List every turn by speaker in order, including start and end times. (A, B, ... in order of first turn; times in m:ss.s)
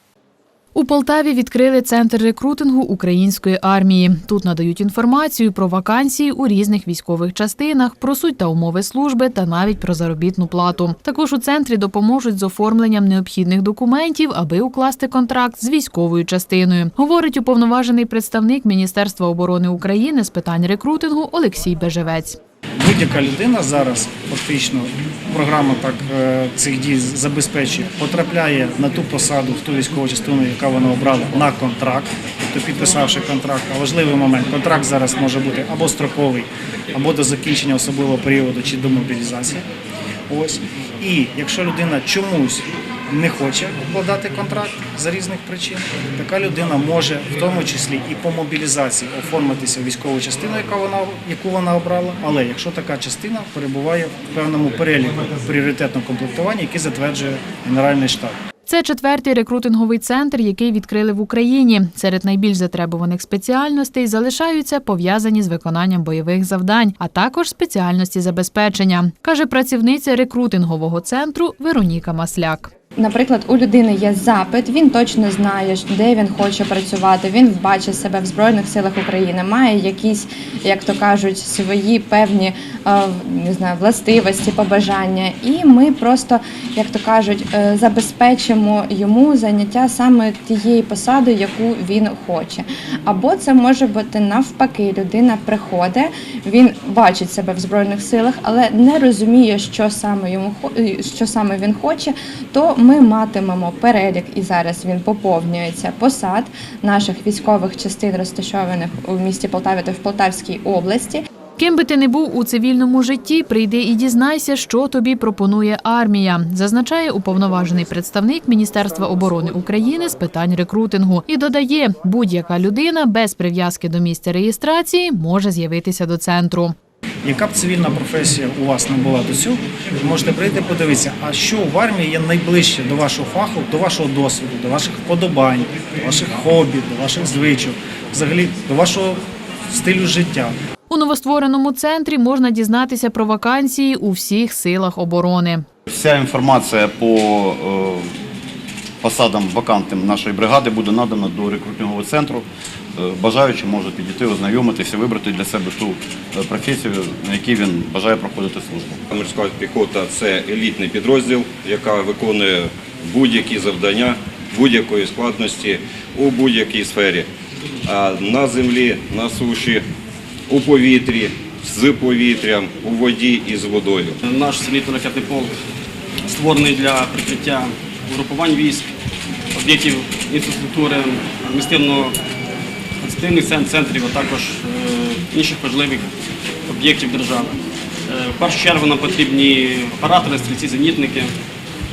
0:00.7-0:22.4 A
0:22.8-0:39.6 B
0:40.3-0:58.4 B
0:58.7-1:12.7 A
1:13.0-1:51.2 C
1:51.6-2:06.8 A
2:07.2-2:19.2 B
2:19.7-2:20.6 B
2:20.9-2:25.7 A
2:25.9-2:28.0 D
2:29.0-2:32.4 D
2:33.0-2:39.0 D
2:39.1-2:47.3 E
2:47.9-2:49.8 E
2:50.5-2:54.2 E
2:54.2-2:55.5 F
2:56.3-2:58.9 F
2:59.6-3:02.2 F
3:03.0-3:06.1 F
3:06.7-3:07.5 F
3:08.1-3:11.4 F